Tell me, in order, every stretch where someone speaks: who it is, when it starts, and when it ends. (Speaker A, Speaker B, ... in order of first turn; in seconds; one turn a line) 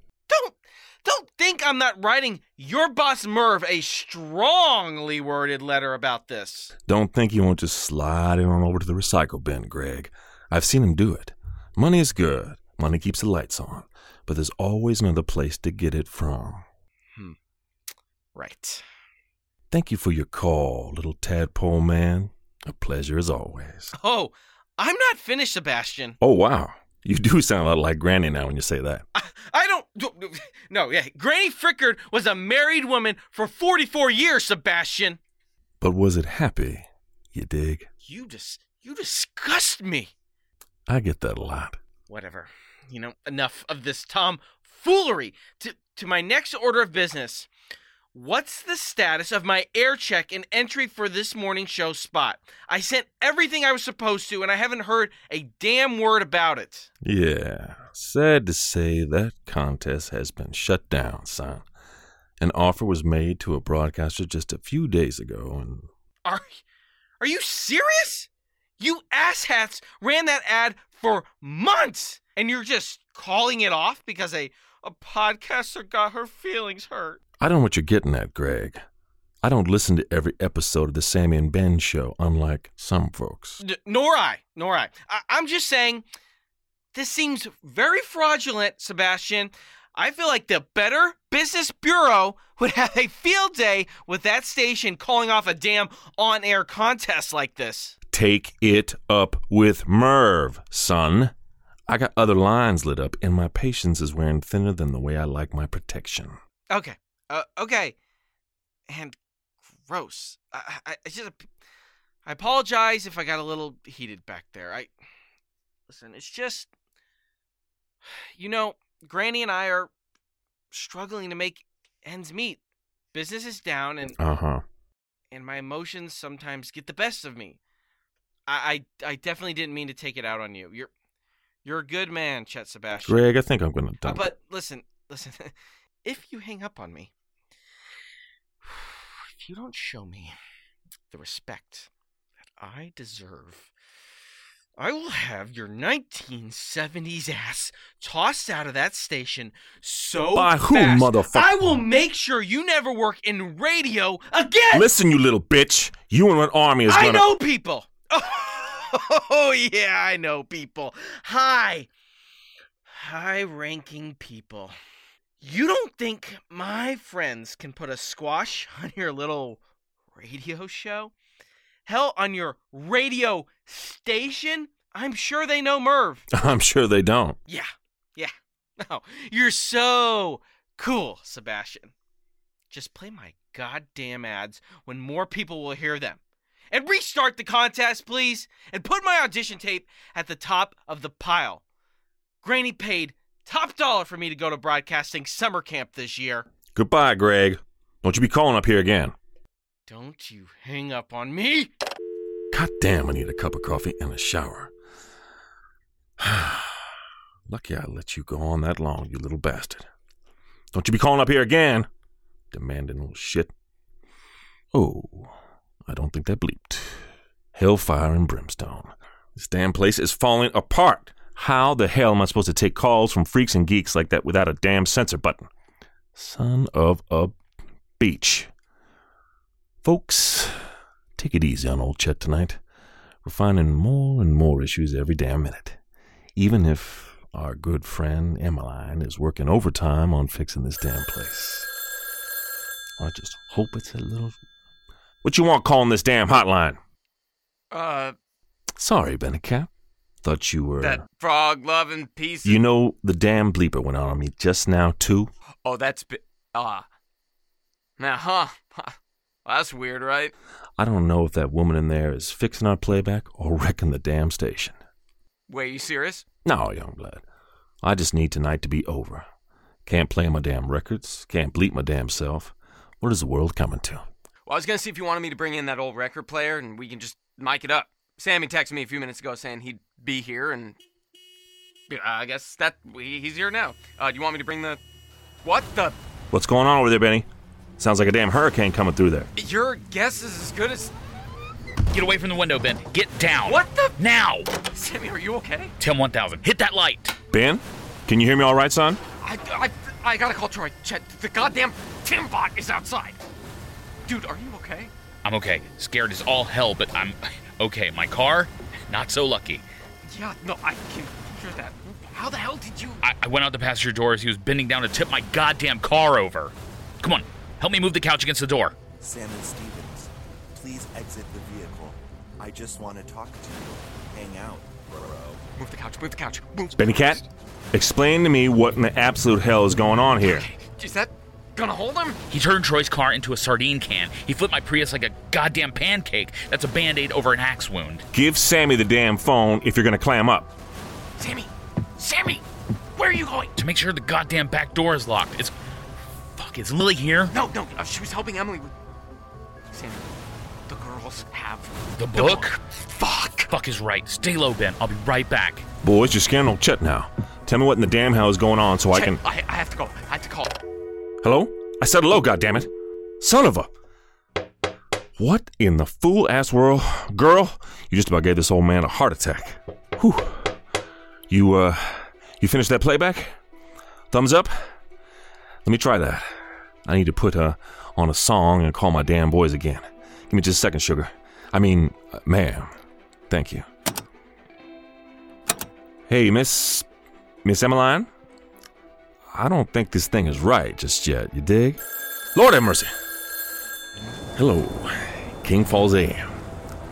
Speaker A: 0.3-6.7
Speaker B: 6.9-16.6
Speaker A: 18.4-18.8
Speaker B: 19.7-23.9
Speaker A: 23.9-26.2
Speaker B: 26.2-29.1
Speaker A: 29.1-35.2
Speaker B: 35.8-37.9
Speaker A: 38.0-40.1
Speaker B: 40.9-41.8
Speaker A: 42.1-47.5
Speaker A: 48.1-56.9
Speaker B: 57.0-61.6
Speaker B: 62.4-65.9
Speaker A: 66.2-66.6
Speaker A: 67.2-77.2
Speaker B: 77.4-78.8
Speaker B: 79.4-83.6
Speaker A: 83.6-86.0
Speaker A: 86.9-98.0
Speaker B: 98.1-101.3
Speaker B: 101.9-106.4
Speaker A: 106.7-108.0
Speaker A: 108.9-109.2
Speaker A: 109.8-111.5
Speaker A: 112.2-114.9
Speaker A: 115.9-116.7
Speaker A: 118.4-119.9
Speaker A: 120.7-122.6
Speaker A: 123.1-124.2
Speaker B: 124.2-124.6
Speaker A: 125.3-127.6
Speaker A: 128.5-130.9
Speaker A: 131.6-133.2
Speaker B: 133.0-134.2
Speaker A: 134.0-135.5
Speaker A: 136.0-137.1
Speaker A: 138.7-140.4
Speaker A: 141.1-141.9
Speaker A: 142.6-143.7
Speaker A: 144.8-154.9
Speaker B: 150.3-151.5
Speaker B: 154.7-157.3
Speaker A: 156.9-161.9
Speaker A: 163.0-164.8
Speaker A: 165.4-169.6
Speaker A: 170.1-171.1
Speaker A: 171.9-176.3
Speaker B: 176.3-177.4
Speaker A: 177.5-181.9
Speaker A: 182.7-186.2
Speaker A: 186.7-191.6
Speaker A: 192.4-196.5
Speaker B: 196.7-199.2
Speaker A: 199.9-201.7
Speaker B: 202.5-204.7
Speaker B: 206.2-206.8
Speaker B: 207.5-209.9
Speaker B: 210.7-211.9
Speaker B: 212.5-213.5
Speaker B: 214.7-215.3
Speaker B: 215.9-217.0
Speaker B: 217.5-225.5
Speaker B: 226.2-227.4
Speaker B: 228.0-228.5
Speaker B: 229.8-230.6
Speaker B: 231.2-232.6
Speaker B: 233.2-235.8
Speaker B: 236.4-241.7
Speaker B: 243.0-244.4
Speaker B: 245.2-246.8
Speaker C: 247.7-248.2
Speaker B: 248.8-249.7
Speaker B: 250.2-251.0
Speaker C: 250.8-252.6
Speaker B: 252.4-255.3
Speaker C: 255.6-256.9
Speaker C: 258.0-260.3
Speaker B: 260.8-264.8
Speaker C: 265.5-266.3
Speaker B: 266.4-267.2
Speaker B: 267.8-269.3
Speaker B: 269.9-274.1
Speaker C: 274.5-280.8
Speaker C: 281.9-284.8
Speaker C: 285.4-286.0
Speaker B: 286.3-287.3
Speaker B: 287.8-289.3
Speaker C: 289.4-290.9
Speaker D: 291.9-294.5
Speaker C: 293.4-294.0
Speaker C: 294.7-295.7
Speaker D: 295.8-297.2
Speaker B: 297.3-299.0
Speaker C: 299.2-303.2
Speaker C: 304.1-304.9
Speaker D: 305.2-309.6
Speaker C: 310.1-313.0
Speaker D: 313.0-318.8
Speaker E: 319.0-325.4
Speaker C: 325.6-327.2
Speaker B: 326.8-330.5
Speaker C: 330.3-332.2
Speaker D: 332.3-338.1
Speaker B: 338.1-340.5
Speaker C: 341.2-343.5
Speaker D: 343.6-345.5
Speaker D: 346.4-347.4
Speaker C: 347.3-348.7
Speaker C: 349.7-350.1
Speaker C: 350.7-353.5
Speaker D: 352.0-352.6
Speaker D: 353.5-355.7
Speaker B: 355.8-359.2
Speaker C: 358.9-360.6
Speaker B: 361.2-363.7
Speaker B: 365.2-370.5
Speaker B: 371.3-373.3
Speaker B: 374.1-374.6
Speaker B: 375.6-376.3
Speaker B: 376.9-382.7
Speaker B: 383.3-383.7
Speaker B: 386.1-386.9
Speaker B: 387.4-388.1
Speaker B: 389.3-391.8
Speaker B: 392.4-392.9
Speaker B: 394.4-396.3